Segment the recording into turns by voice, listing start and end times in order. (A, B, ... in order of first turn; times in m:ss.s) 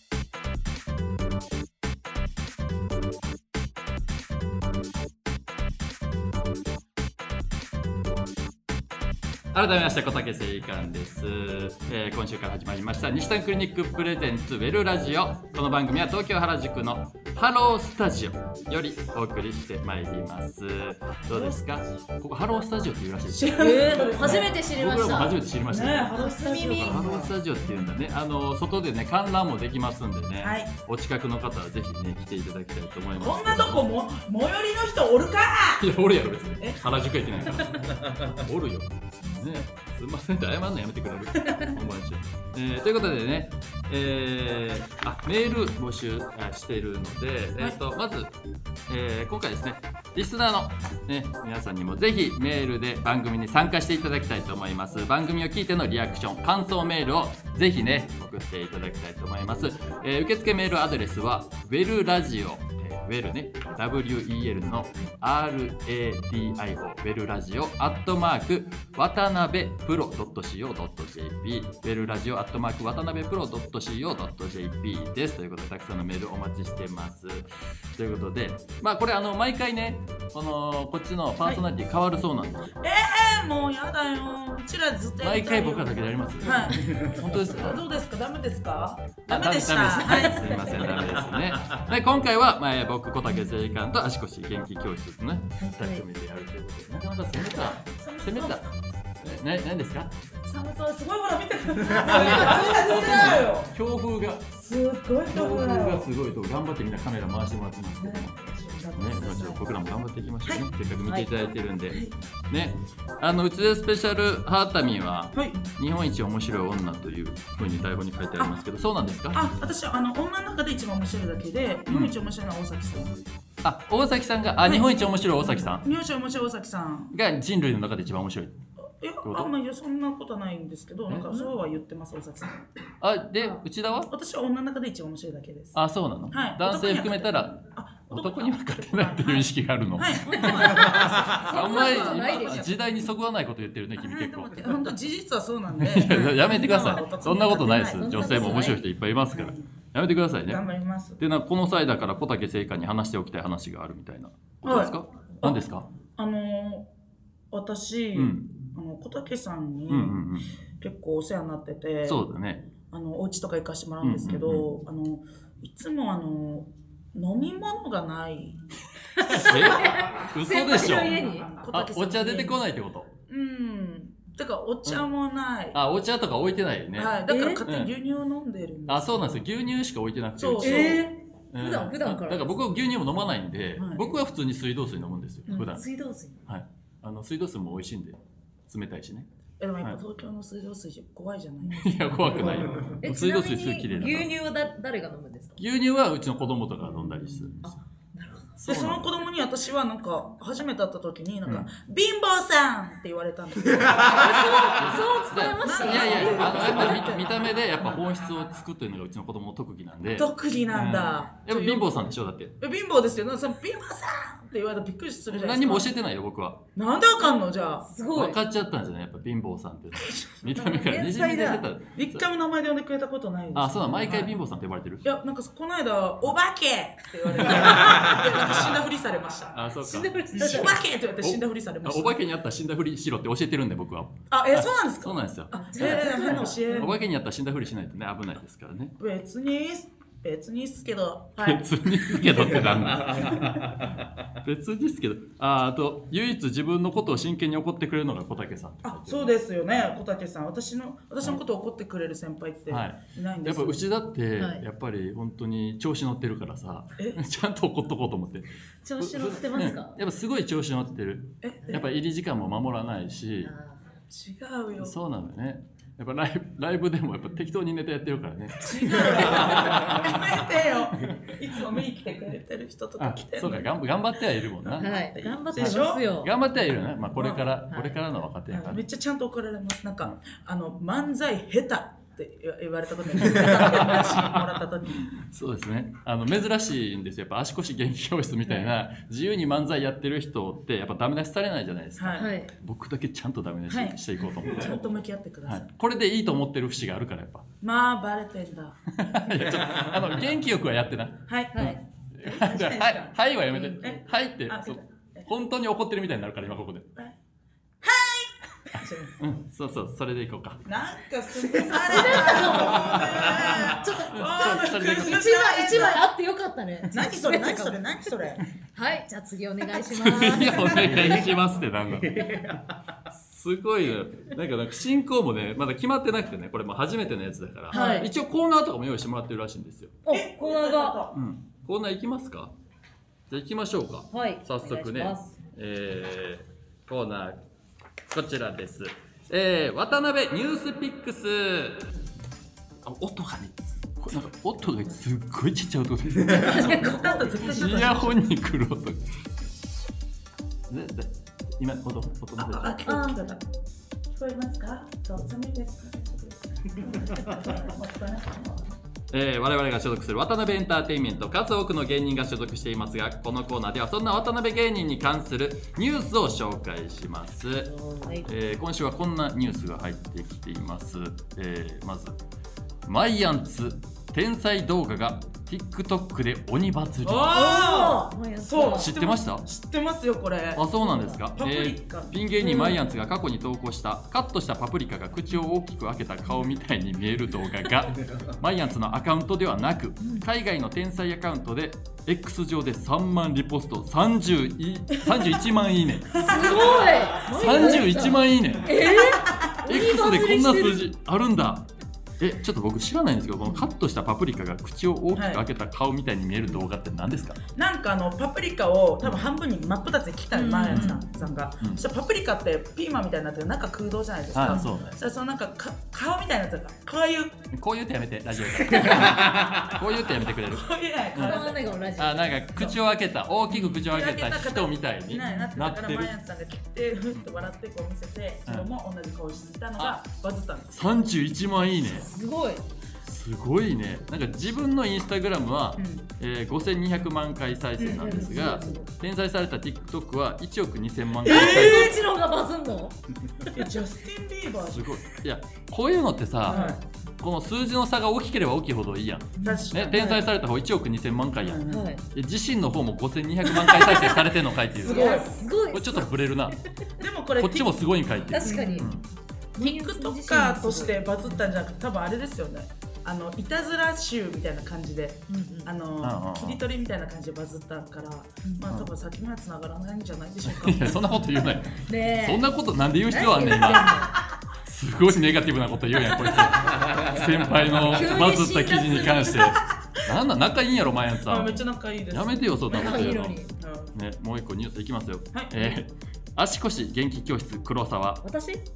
0:09.5-0:26.2 A
0:21.3-0:21.6 B
0:23.3-0:24.6 B
0:23.6-0:25.4 C
0:25.7-0:27.3 B
0:26.1-0:27.1 C
0:26.8-0:33.9 A
0:30.4-0:30.7 B
0:33.2-0:35.8 B
0:35.8-0:48.3 A
0:41.4-0:41.7 B
0:48.9-1:22.7 A
1:22.8-1:31.1 B
1:25.2-1:27.8 A
1:29.3-1:38.7 A
1:35.7-1:36.0 C
1:37.8-1:38.7 B
1:39.2-1:40.2 A
1:40.4-1:43.7 B
1:42.0-1:43.3 C
1:42.0-1:44.5 A
1:44.6-1:46.1 B
1:45.3-1:48.4 A
1:48.0-1:49.7 B
1:48.9-1:59.5 A
1:55.3-1:55.6 B
1:59.3-2:03.2 B
2:01.9-2:02.1 A
2:03.6-2:05.8 A
2:04.6-2:05.0 B
2:05.8-2:07.1 B
2:07.1-2:08.6 A
2:09.0-2:12.6 B
2:09.2-2:09.5 A
2:13.0-2:14.1 A
2:14.1-2:15.8 B
2:15.7-2:24.8 A
2:16.3-2:22.8 B
2:20.3-2:22.7 C
2:24.0-2:28.3 B
2:25.8-2:30.6 A
2:27.8-2:28.8 C
2:29.3-2:29.7 B
2:30.5-2:31.2 B
2:31.2-2:35.9 A
2:34.6-2:35.6 B
2:36.2-2:36.9 B
2:37.5-2:40.2 B
2:38.1-2:38.5 A
2:39.9-2:40.5 A
2:40.8-2:42.2 B
2:42.0-2:42.6 A
2:42.9-2:48.6 B
2:44.0-2:44.7 A
2:49.2-2:51.5 C
2:49.2-2:53.1 A
2:50.9-2:52.6 B
2:53.3-2:55.8 B
2:55.7-2:57.9 A
2:57.0-2:59.3 B
2:57.3-2:57.6 C
2:58.9-3:05.8 A
3:00.4-3:01.1 B
3:00.6-3:02.5 C
3:03.8-3:04.1 B
3:05.5-3:06.4 C
3:06.4-3:09.3 A
3:09.6-3:11.9 B
3:11.7-3:14.3 A
3:13.0-3:15.6 C
3:15.6-3:17.7 A
3:17.6-3:18.5 C
3:18.6-3:19.1 A
3:18.7-3:28.0 B
3:24.1-3:27.2 C
3:24.2-3:32.6 A
3:30.1-3:31.9 B
3:32.6-3:35.9 B
3:35.3-3:36.6 A
3:36.7-3:37.9 B
3:37.8-3:38.4 C
3:38.1-3:42.3 A
3:40.0-3:40.7 B
3:40.6-3:41.7 C
3:41.9-3:44.3 B
3:43.5-3:45.0 A
3:45.0-3:49.6 B
3:47.4-3:48.7 A
3:49.5-3:58.9 A
3:49.8-3:50.8 C
3:50.3-3:52.2 B
3:54.3-3:56.9 B
3:55.6-3:56.9 C
3:59.0-4:03.3 B
4:01.4-4:09.3 A
4:08.8-4:13.8 B
4:12.7-4:18.5 A
4:18.8-4:20.0 C
4:19.0-4:23.5 A
4:21.4-4:21.8 B
4:23.4-4:23.8 C
4:24.1-4:24.9 B
4:24.8-4:30.3 A
4:28.6-4:33.7 B
4:33.0-4:34.9 A
4:34.6-4:36.1 B
4:34.8-4:36.3 C
4:35.5-4:38.8 A
4:37.1-4:37.6 B
4:38.5-4:45.0 B
4:43.2-4:44.2 A
4:45.1-4:54.8 A
4:52.0-4:52.3 B
4:52.2-4:52.5 C
4:53.7-4:55.6 B
4:55.5-4:57.4 A
4:57.6-4:58.8 B
4:58.9-5:06.9 A
5:01.3-5:03.2 B
5:01.5-5:01.8 C
5:03.8-5:05.3 B
5:07.8-5:09.2 B
5:08.8-5:10.6 A
5:10.6-5:16.1 B
5:11.7-5:18.2 C
5:12.7-5:15.3 A
5:16.9-5:18.4 B
5:18.7-5:21.2 C
5:19.8-5:22.6 A
5:23.1-5:30.0 A
5:27.7-5:28.0 B
5:27.7-5:28.1 C
5:30.0-5:31.0 C
5:30.1-5:31.2 B
5:31.1-5:32.5 A
5:33.3-5:37.4 A
5:34.1-5:35.3 C
5:38.1-5:41.9 A
5:42.8-5:49.1 A
5:46.3-5:48.2 B
5:46.4-5:47.5 C
5:50.7-5:52.8 A
5:52.4-5:53.4 B
5:52.8-5:53.2 C
5:54.1-5:58.7 B
5:59.1-6:12.2 A
6:08.0-6:08.3 C
6:12.8-6:17.4 A
6:17.0-6:20.7 B
6:17.3-6:18.9 C
6:18.7-6:19.5 A
6:20.5-6:39.0 A
6:21.3-6:22.2 B
6:22.4-6:22.8 C
6:36.1-6:36.8 B
6:36.2-6:40.8 C
6:38.8-6:39.6 B
6:39.6-6:41.7 A
6:42.2-6:47.4 A
6:45.1-6:45.4 B
6:47.5-6:57.4 B
6:50.3-6:51.0 C
6:50.7-6:51.0 A
6:54.3-6:55.0 A
6:57.5-7:01.4 A
6:58.7-6:59.4 B
6:58.8-6:59.1 C
7:00.5-7:01.6 B
7:01.2-7:02.7 C
7:02.0-7:06.1 A
7:03.5-7:10.8 B
7:05.2-7:05.5 C
7:10.7-7:12.1 A
7:11.9-7:12.6 C
7:13.0-7:22.0 A
7:15.8-7:16.1 B
7:17.8-7:18.8 B
7:17.9-7:18.8 C
7:21.2-7:22.0 B
7:21.2-7:23.6 C
7:23.5-7:25.0 B
7:24.7-7:36.6 A
7:26.4-7:26.8 B
7:26.5-7:26.8 C
7:29.4-7:30.2 C
7:29.4-7:30.0 B
7:31.4-7:31.9 B
7:31.7-7:32.0 C
7:33.4-7:34.0 B
7:34.7-7:35.4 B
7:34.8-7:36.1 C
7:37.0-7:38.9 B
7:37.4-7:39.0 A
7:38.3-7:38.9 C
7:39.6-7:41.0 C
7:39.6-7:51.0 B
7:45.3-7:45.7 C
7:46.0-7:46.6 A
7:50.4-7:54.0 A
7:51.7-7:52.4 C
7:53.1-7:54.2 C
7:54.6-8:03.4 A
7:57.8-7:59.5 C
8:01.2-8:03.9 B
8:02.7-8:03.5 C
8:03.9-8:08.2 A
8:05.3-8:05.8 B
8:08.2-8:08.6 C